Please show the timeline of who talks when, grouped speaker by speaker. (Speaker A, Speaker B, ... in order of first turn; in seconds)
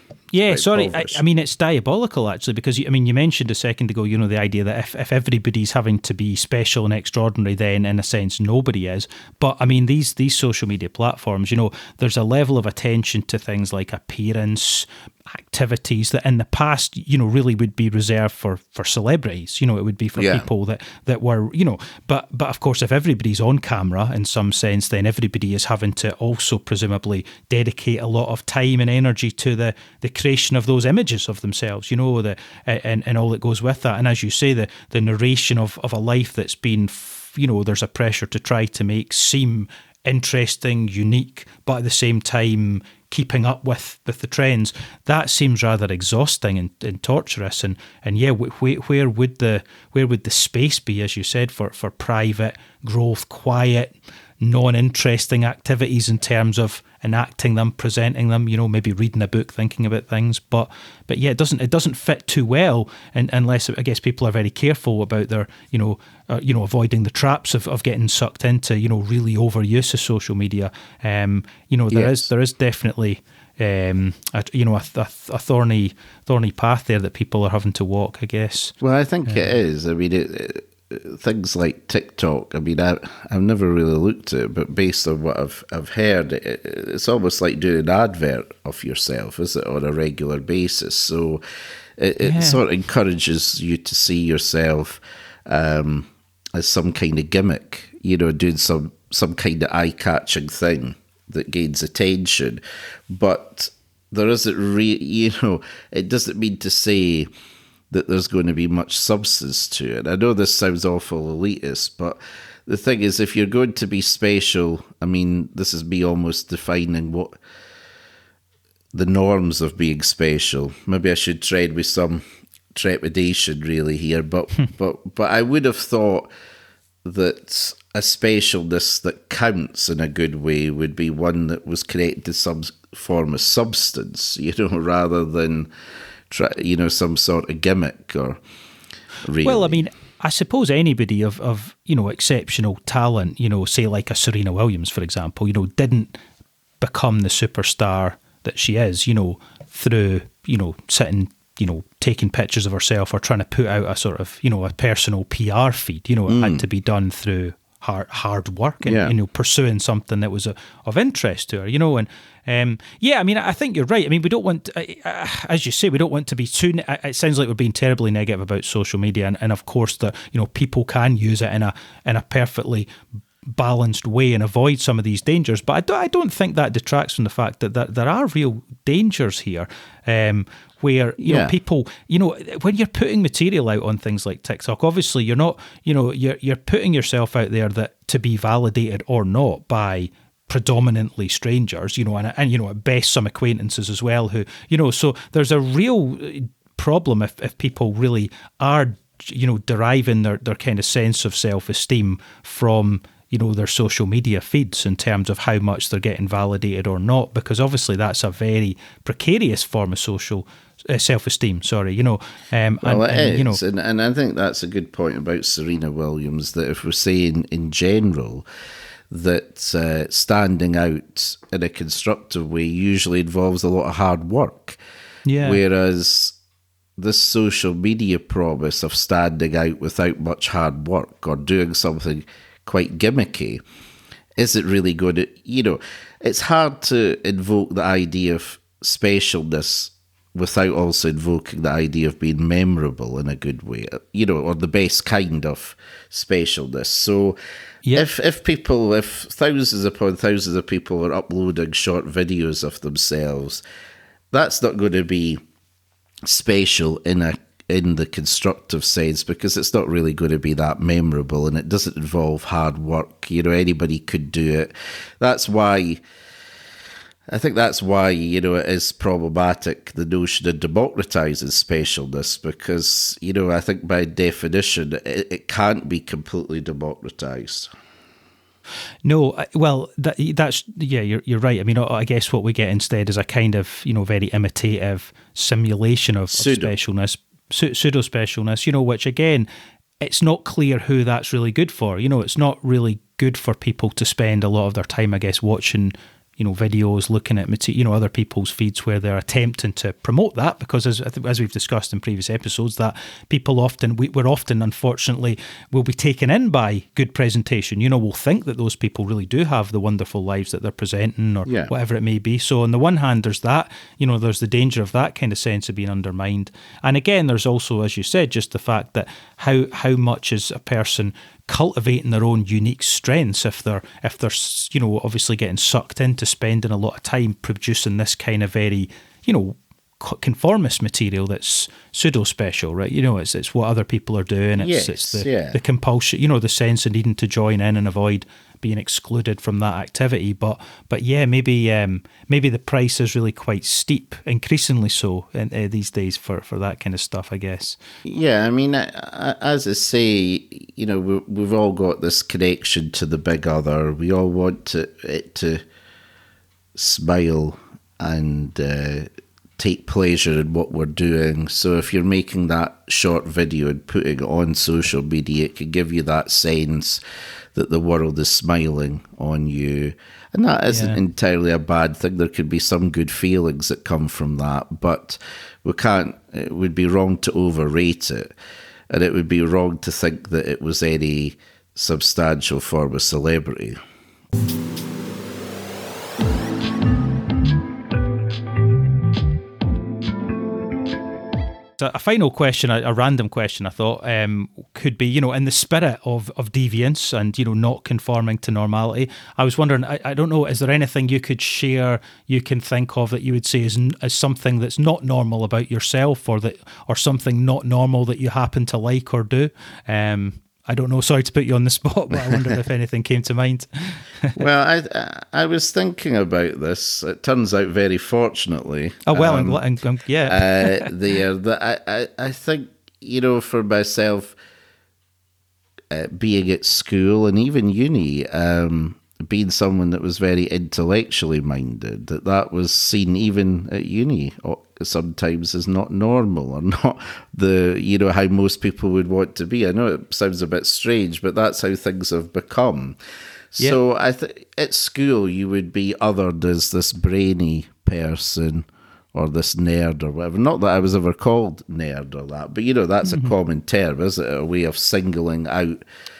Speaker A: 0.3-79.5, 92.2-92.6, 139.4-146.2, 146.8-172.9, 173.5-213.6, 225.2-225.6, 279.0-289.5, 290.0-347.8, 370.7-371.0, 391.8-414.4, 419.1-420.9, 453.0-453.3
Speaker B: 0.5-1.2, 20.1-20.5, 71.9-72.2, 78.8-91.4, 92.0-107.3, 107.9-117.3, 118.9-126.3, 127.0-135.7, 136.3-138.4, 139.2-139.8, 156.3-156.6, 158.8-159.1, 181.2-181.5, 212.8-218.4, 219.1-224.8, 225.4-226.4, 227.0-233.6, 234.4-247.4, 247.9-253.6, 254.3-255.4, 256.2-266.0, 267.3-277.7, 286.3-286.7, 311.4-311.7, 334.6-335.6, 348.0-355.6, 356.7-367.0, 367.5-378.3, 378.9-383.8, 412.2-412.5, 414.4-419.6, 420.3-424.4, 425.9-443.0, 443.5-455.8